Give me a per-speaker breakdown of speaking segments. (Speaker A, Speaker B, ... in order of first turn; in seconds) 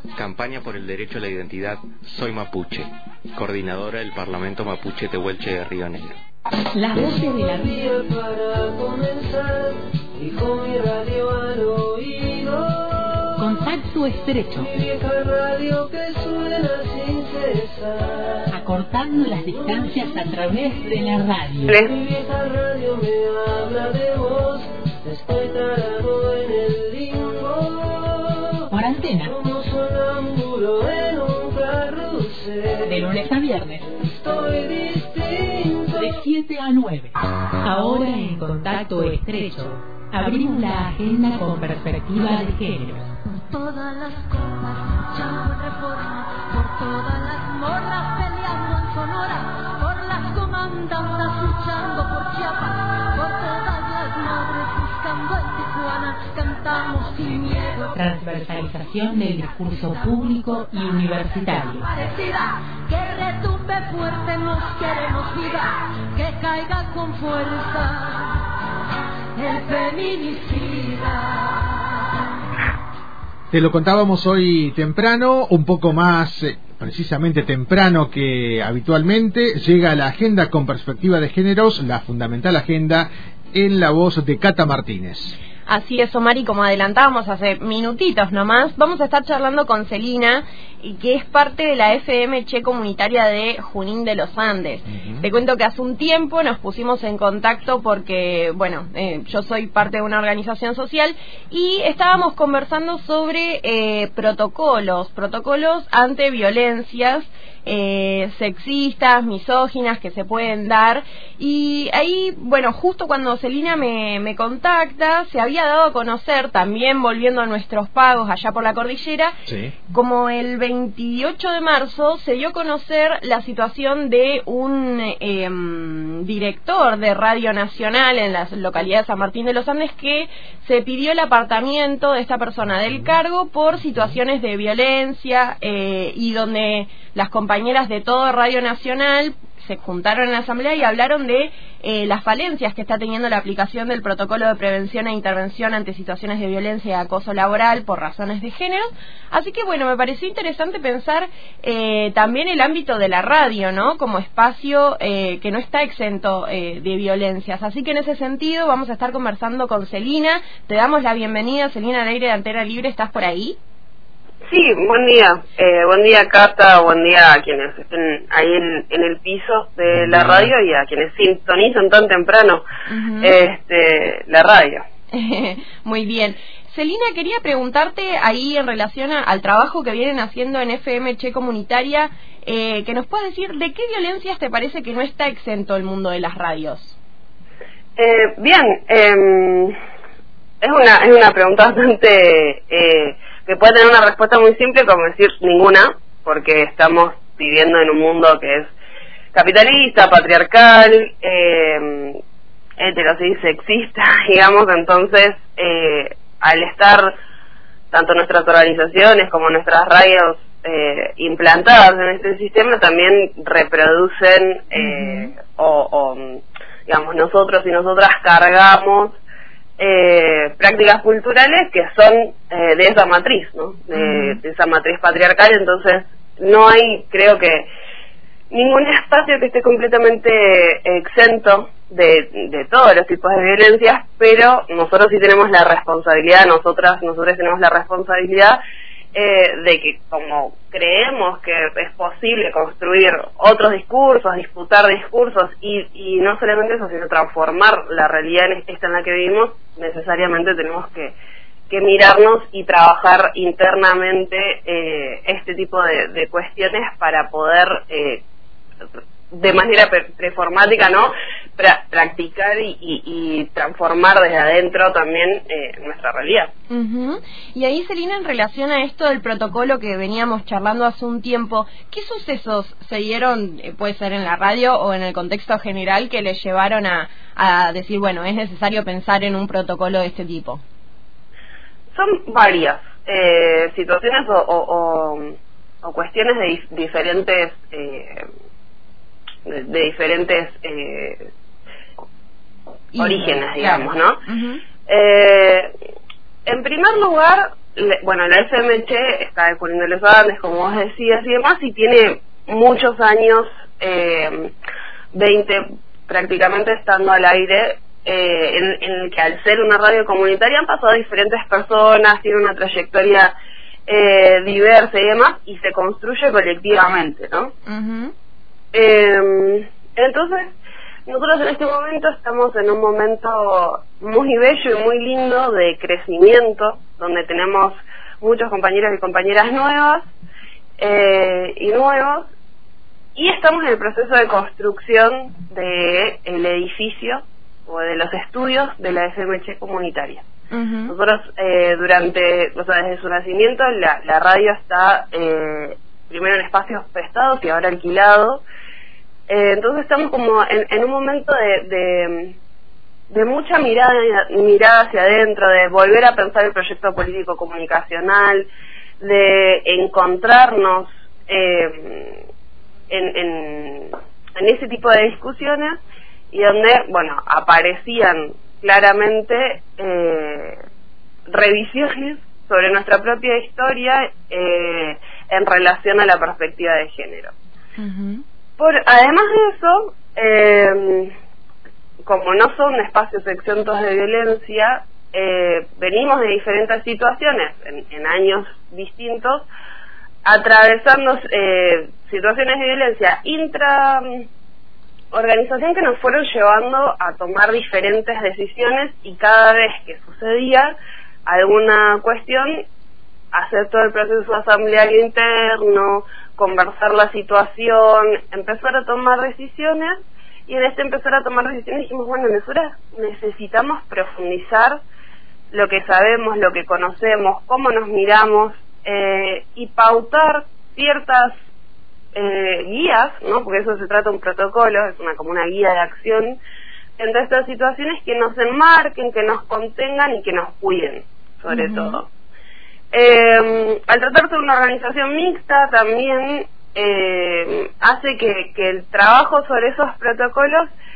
Speaker A: 0.1-6.2
Speaker B: 6.7-7.9, 13.4-14.7, 18.5-21.8, 28.7-29.4, 32.8-33.9, 35.9-43.1, 58.0-61.9
Speaker C: 7.8-12.9, 14.8-18.4, 21.9-28.5, 29.4-32.8, 34.1-35.9
Speaker D: 21.7-21.9, 164.5-172.6, 173.2-174.8, 188.0-189.8, 190.6-198.7, 199.3-202.2, 202.8-207.1, 207.9-219.2, 219.8-227.7, 228.5-238.6, 239.1-251.2, 251.7-258.2, 259.3-266.5, 281.9-288.2, 289.5-291.3, 293.0-294.2, 294.9-295.7, 296.5-304.5, 305.1-313.4, 313.9-317.5, 318.7-320.5, 321.1-330.1, 330.8-332.3, 333.1-340.3, 340.9-348.4, 349.3-352.4, 353.1-358.5, 359.0-362.2, 362.9-365.8, 366.3-370.6, 371.3-377.3, 378.6-381.1, 382.1-389.5, 390.2-394.3, 395.1-402.6, 403.3-414.8, 415.5-421.3, 422.1-426.4, 427.0-432.1, 432.9-440.7
Speaker E: 43.3-58.0, 61.9-68.4, 69.4-72.0
Speaker F: 73.5-85.4, 119.5-119.7
Speaker G: 85.7-119.3, 119.9-163.6, 172.9-173.3, 175.1-187.0, 214.8-215.3, 223.9-224.4, 266.7-280.6, 292.9-294.6, 317.7-318.1, 340.5-340.9, 377.8-378.2, 431.5-432.0